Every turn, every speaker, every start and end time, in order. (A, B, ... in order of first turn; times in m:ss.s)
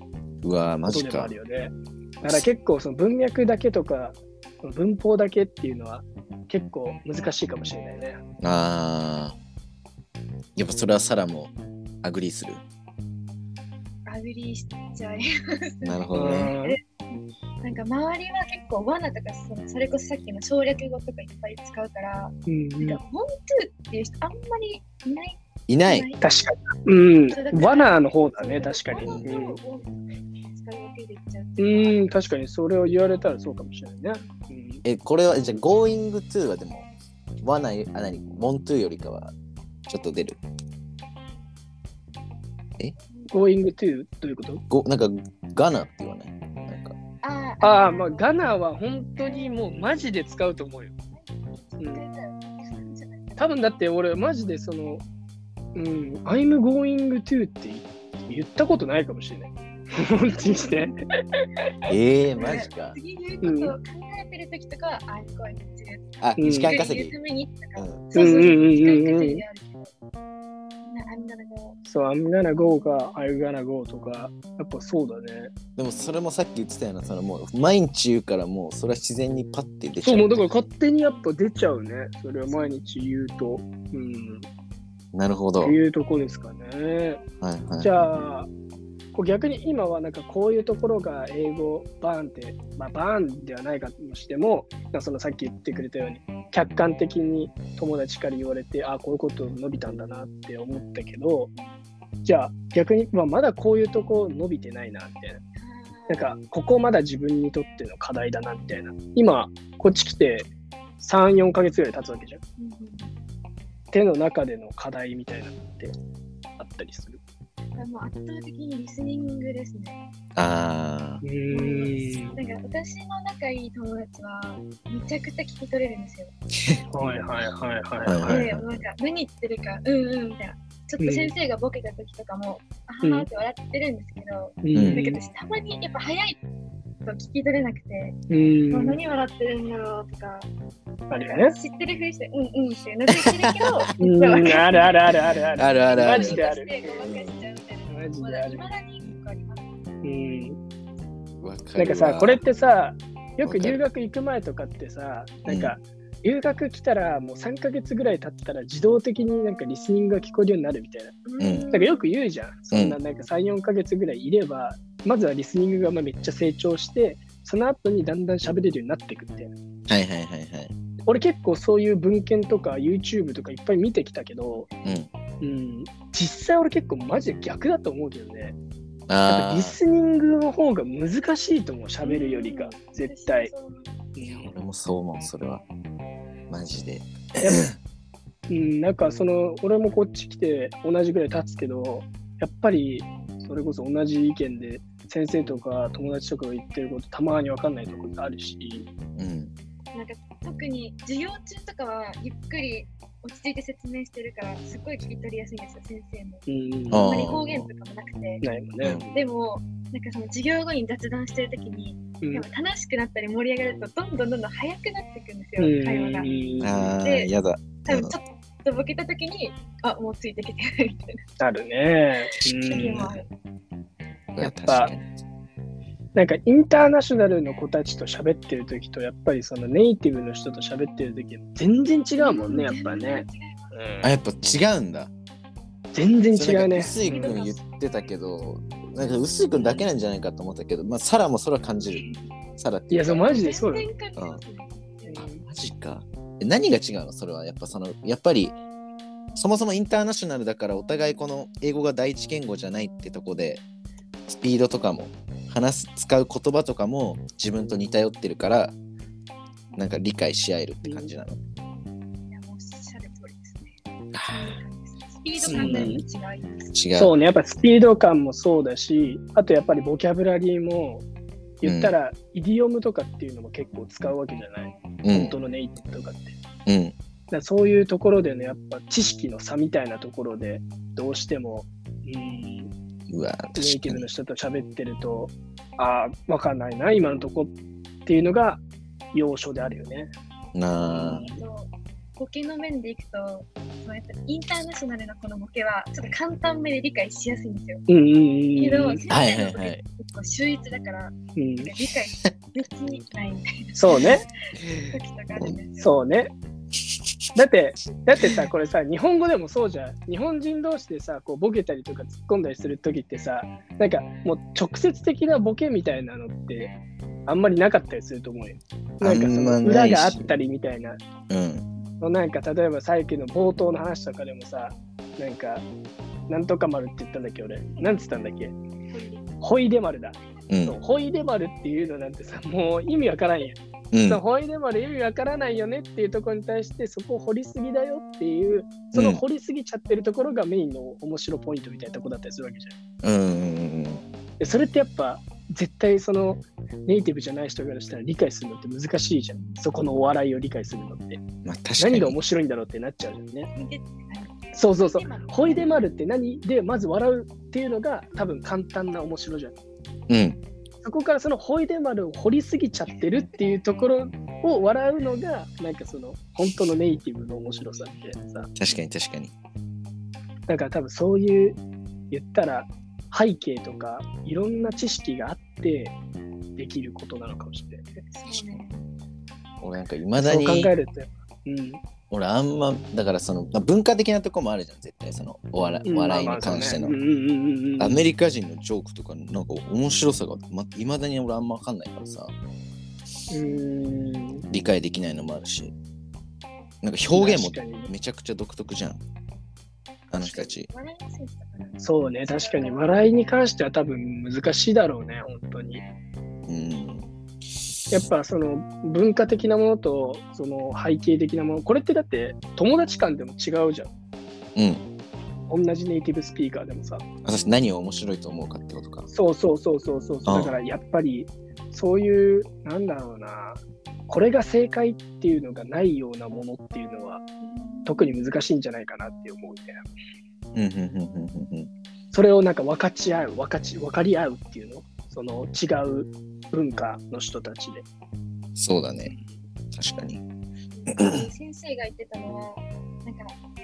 0:00.4-0:01.3 A
0:00.9-0:08.2 B
0:08.4-0:09.4 A
0:10.6-0:12.6 A
0:14.0-0:26.2 C
0:15.8-0:16.5 A
0:16.1-0:16.8 B
0:22.5-0:23.0 B
0:25.7-0:26.1 A
0:26.2-0:29.6 B
0:27.3-0:32.1 C
0:29.0-0:29.3 A
0:31.6-0:34.8 B
0:34.8-0:36.9 A
0:37.4-0:39.3 A
0:39.9-0:40.4 A
0:43.1-0:43.5 C
0:43.3-0:44.6 B
0:44.7-0:46.9 A
0:47.2-0:48.4 C
0:47.6-0:50.9 B
0:49.2-0:50.1 C
0:51.1-0:53.7 C
0:53.4-0:55.0 B
0:55.7-1:00.9 B
1:00.3-1:00.9 C
1:01.9-1:03.0 A
1:02.4-1:09.9 C
1:03.4-1:03.8 B
1:06.2-1:07.2 A
1:06.4-1:06.7 B
1:07.8-1:08.1 A
1:08.1-1:09.4 B
1:10.9-1:11.8 C
1:11.8-1:15.5 B
1:15.8-1:20.5 A
1:20.0-1:24.4 B
1:22.5-1:22.8 C
1:25.1-1:25.8 A
1:25.6-1:27.2 B
1:27.4-1:28.1 A
1:27.8-1:28.5 B
1:29.1-1:41.5 B
1:42.2-1:45.4 B
1:45.6-1:46.3 C
1:46.1-1:50.5 B
1:51.0-1:52.4 B
1:52.6-1:53.1 C
1:53.9-1:55.9 B
1:56.6-1:57.2 B
1:57.8-2:00.0 C
2:00.4-2:01.2 A
2:01.2-2:02.4 B
2:01.5-2:06.3 C
2:06.9-2:08.5 B
2:08.0-2:08.8 A
2:08.3-2:16.4 C
2:11.0-2:11.3 B
2:14.6-2:15.2 B
2:14.7-2:15.0 A
2:17.0-2:20.5 C
2:18.3-2:19.0 B
2:21.1-2:21.5 B
2:21.4-2:25.1 C
2:23.2-2:23.8 A
2:24.0-2:27.0 B
2:25.6-2:26.4 A
2:25.6-2:29.7 C
2:27.0-2:27.4 A
2:27.9-2:28.6 B
2:30.0-2:30.6 B
2:31.4-2:32.4 A
2:31.8-2:49.5 B
2:33.4-2:33.8 A
2:35.4-2:35.8 A
2:41.2-2:42.1 C
2:41.4-2:41.7 A
2:42.7-2:43.0 A
2:49.9-2:50.7 A
2:51.1-2:54.7 B
2:54.8-2:55.1 A
2:55.4-2:58.6 B
2:59.1-2:59.8 A
2:59.3-3:03.5 B
3:02.0-3:03.9 C
3:04.2-3:04.5 B
3:04.2-3:05.6 A
3:06.5-3:07.7 A
3:07.4-3:07.7 B
3:08.5-3:18.8 B
3:19.2-3:19.5 A
3:19.9-3:28.4 C
3:26.5-3:27.3 B
3:26.9-3:27.7 A
3:28.4-3:29.2 B
3:29.1-3:36.3 C
3:32.2-3:32.4 B
3:35.6-3:36.9 B
3:36.6-3:38.1 A
3:37.0-3:37.3 C
3:37.8-3:41.2 C
3:41.4-3:43.0 B
3:42.5-3:43.2 A
3:42.6-3:43.3 C
3:44.3-3:45.1 A
3:44.4-3:44.9 B
3:46.1-3:54.1 B
3:52.2-3:53.7 C
3:54.0-3:55.1 A
3:55.9-3:57.4 B
3:56.3-4:03.2 A
3:56.7-3:57.8 C
3:59.4-3:59.8 B
4:02.9-4:03.9 B
4:03.1-4:05.2 C
4:05.1-4:05.4 B
4:05.2-4:08.5 A
4:09.3-4:13.6 A
4:14.3-4:18.7 A
4:19.8-4:21.4 A
4:22.3-4:26.8 C
4:24.1-4:24.6 A
4:25.4-4:26.0 A
4:25.5-4:26.0 B
4:26.7-4:27.1 A
4:27.0-4:31.0 B
4:31.6-4:36.4 B
4:31.6-4:32.0 A
4:35.0-4:35.4 A
4:36.7-4:36.9 A
4:37.3-4:42.7 B
4:43.1-4:44.0 A
4:43.6-4:47.5 B
4:48.0-4:50.1 B
4:50.5-4:51.3 A
4:50.9-4:51.4 B
4:50.9-4:57.8 C
4:57.9-4:59.0 B
4:58.6-5:04.1 C
4:59.1-4:59.8 A
5:01.4-5:01.7 B
5:03.7-5:04.2 B
5:04.8-5:06.0 C
5:05.8-5:06.3 B
5:07.4-5:16.7 B
5:17.3-5:21.0 B
5:19.0-5:20.3 A
5:21.3-5:21.7 A
5:22.0-5:25.6 B
5:26.3-5:28.5 B
5:28.9-5:29.4 C
5:29.4-5:42.8 B
5:30.5-5:30.8 A
5:33.9-5:34.2 A
5:38.9-5:39.2 A
5:43.0-5:44.0 A
5:44.4-5:51.2 B
5:51.4-5:52.1 A
5:51.8-5:53.5 B
5:53.5-5:55.7 C
5:54.5-5:59.5 B
6:00.1-6:00.4 A
6:00.8-6:08.5 B
6:08.6-6:09.3 A
6:10.5-6:11.6 B
6:12.1-6:15.9 B
6:16.6-6:17.8 B
6:18.0-6:18.8 C
6:18.3-6:18.6 A
6:19.6-6:20.7 A
6:20.2-6:21.8 B
6:22.1-6:27.0 A
6:25.8-6:28.0 B
6:27.8-6:32.3 A
6:33.3-6:34.4 B
6:34.5-6:35.7 A
6:36.8-6:39.0 A
6:37.1-6:37.9 B
6:40.1-6:40.7 A
6:40.1-6:43.2 C
6:41.8-6:45.8 B
6:46.4-6:47.0 A
6:47.9-6:53.9 B
6:54.6-6:54.8 A
6:55.5-6:57.0 B
6:57.2-6:59.1 A
6:59.1-7:07.2 B
7:00.2-7:00.6 A
7:07.5-7:08.2 C
7:07.8-7:09.8 B
7:10.5-7:11.7 A
7:12.1-7:17.8 B
7:18.5-7:19.1 A
7:19.7-7:20.2 A
7:20.8-7:23.3 C
7:20.9-7:21.2 A